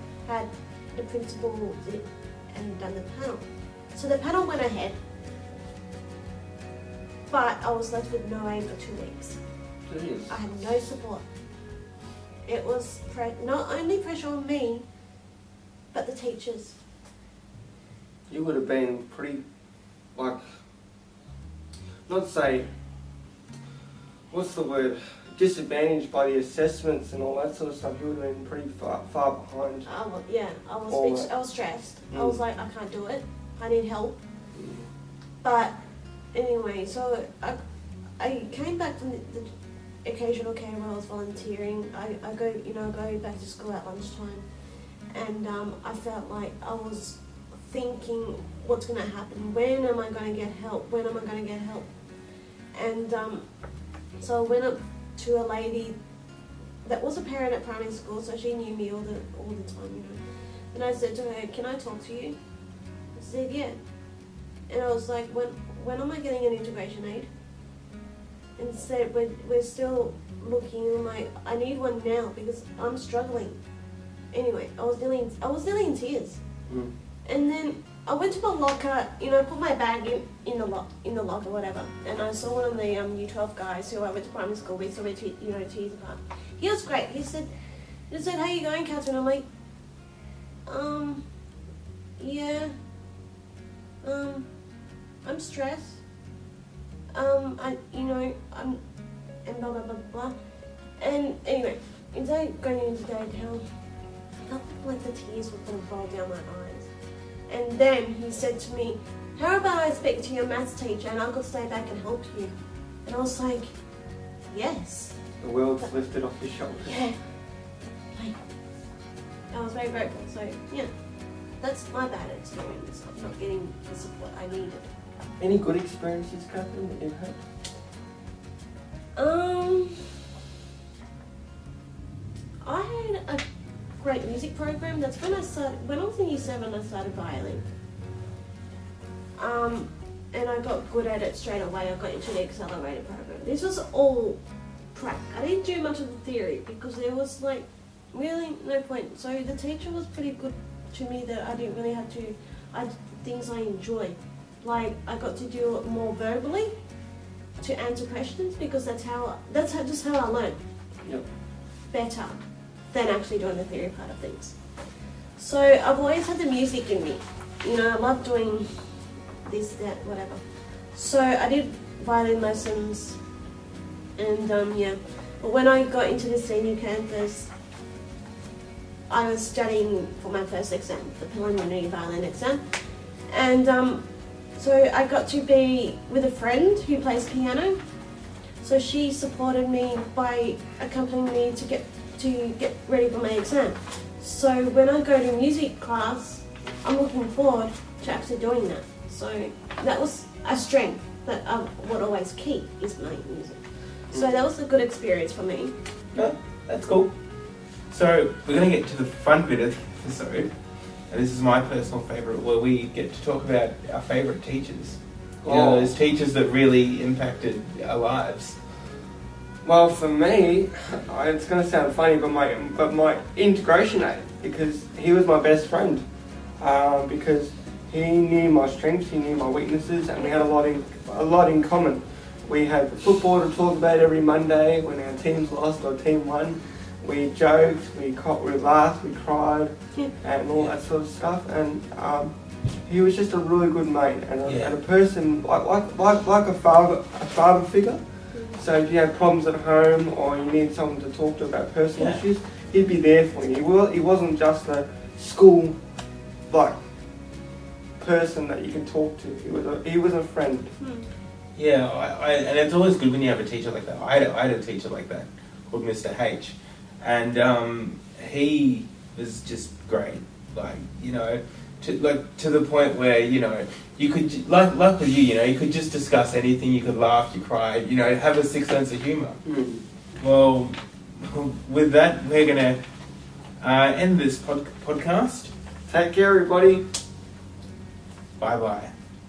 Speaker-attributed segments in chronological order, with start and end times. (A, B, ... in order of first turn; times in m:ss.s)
0:00.2-0:05.0 A
0:07.3-0:09.4 A
0:09.9-0:10.4 B
0:10.3-0:11.2 A
0:12.5-0:14.9 A
0:15.9-0:16.8 A
0:18.3-0:19.4 B
0:20.1-0:20.6 B
0:22.1-0:22.7 B
0:24.3-0:29.9 B
0:29.8-0:34.2 A
0:30.9-0:31.3 B
0:32.1-0:32.4 B
0:34.5-0:34.9 B
0:35.4-0:35.8 A
0:36.3-0:37.6 A
0:38.2-0:39.5 A
0:40.0-0:44.5 A
0:45.1-0:51.9 A
0:52.7-0:53.5 A
0:54.2-0:56.0 A
0:56.8-1:02.4 A
1:03.2-1:03.8 A
1:04.7-1:07.3 A
1:08.6-1:13.6 A
1:14.3-1:16.4 A
1:16.7-1:16.9 B
1:17.2-1:27.5 A
1:28.1-1:29.4 A
1:30.7-1:31.2 A
1:32.2-1:32.7 A
1:34.0-1:34.5 A
1:35.2-1:36.0 A
1:37.1-1:38.8 A
1:39.4-1:40.3 A
1:41.0-1:43.6 A
1:44.4-1:46.9 A
1:47.5-1:52.5 A
1:53.0-1:53.7 A
1:54.5-1:55.2 A
1:55.4-1:57.0 B
1:56.9-1:57.2 A
1:59.5-2:00.9 A
2:01.6-2:04.9 A
2:05.4-2:07.4 B
2:09.2-2:10.1 A
2:12.6-2:13.4 A
2:14.0-2:17.6 A
2:19.4-2:24.4 A
2:24.9-2:36.7 A
2:37.6-2:40.6 A
2:41.9-2:42.4 A
2:42.9-2:44.6 A
2:45.4-2:48.9 A
2:49.4-2:53.2 A
2:54.2-2:57.5 A
2:59.1-3:07.8 A
3:08.6-3:25.7 A
3:26.1-3:27.1 C
3:27.9-3:30.5 C
3:31.1-3:38.6 C
3:35.4-3:35.9 B
3:39.6-3:46.0 B
3:46.6-4:15.8 B
4:04.4-4:04.8 C
4:08.3-4:08.6 A
4:12.0-4:12.2 C
4:16.5-4:16.8 B
4:18.0-4:20.7 B
4:20.8-4:21.1 A
4:21.6-4:39.4 C
4:39.4-4:39.8 B
4:40.2-4:42.8 C
4:43.6-4:45.5 C
4:45.9-4:46.8 B
4:48.4-4:48.9 C